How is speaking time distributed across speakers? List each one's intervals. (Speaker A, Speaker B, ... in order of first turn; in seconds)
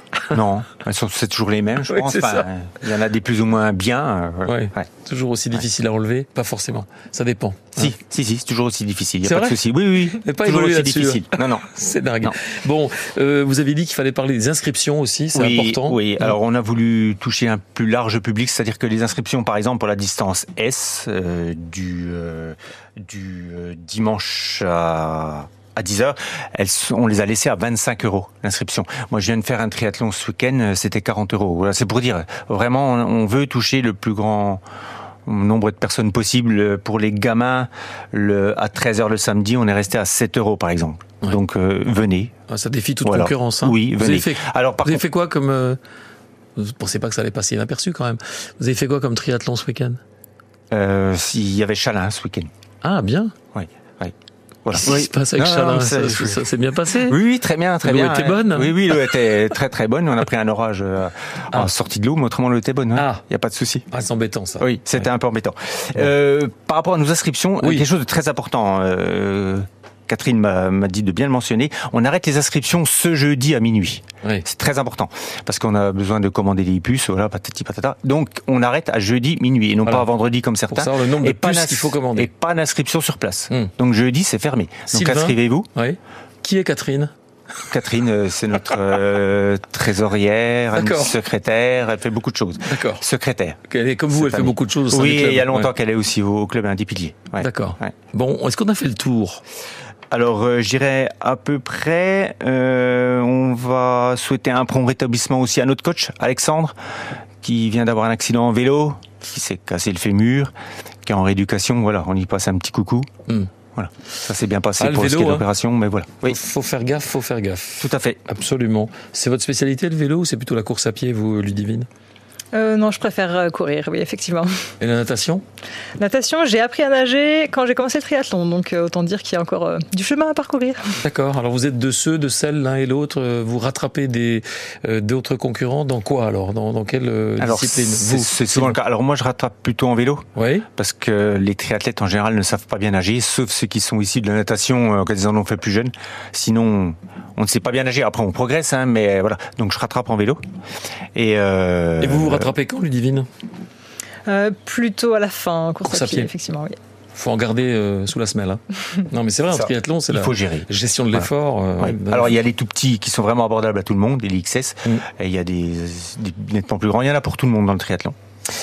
Speaker A: 0.3-4.9, 7.8-12.4, 15.3-34.6, 35.2-42.3, 43.0-45.0, 50.7-52.5, 53.5-54.1, 54.6-63.9, 64.6-85.7, 87.7-93.6, 94.1-97.9, 100.1-106.7, 107.4-110.5, 111.0-113.1, 113.7-116.4, 117.8-118.2, 137.4-140.2, 140.8-150.4, 151.1-152.5, 159.5-161.3, 161.8-168.1
Speaker B: 1.9-2.4, 4.4-7.8, 9.2-16.2, 42.5-45.8, 46.6-50.0, 52.8-53.3, 54.7-57.2, 57.8-59.0, 62.9-63.2, 63.9-64.7, 80.7-82.3, 84.9-87.1, 90.7-91.2, 92.6-93.0, 93.7-95.7, 97.4-99.4, 114.8-115.5, 116.2-121.9, 124.8-125.4, 131.0-138.8, 140.3-140.7, 152.0-153.3, 155.8-156.3, 157.1-162.3
Speaker C: 122.5-124.5, 126.0-130.8, 154.2-156.7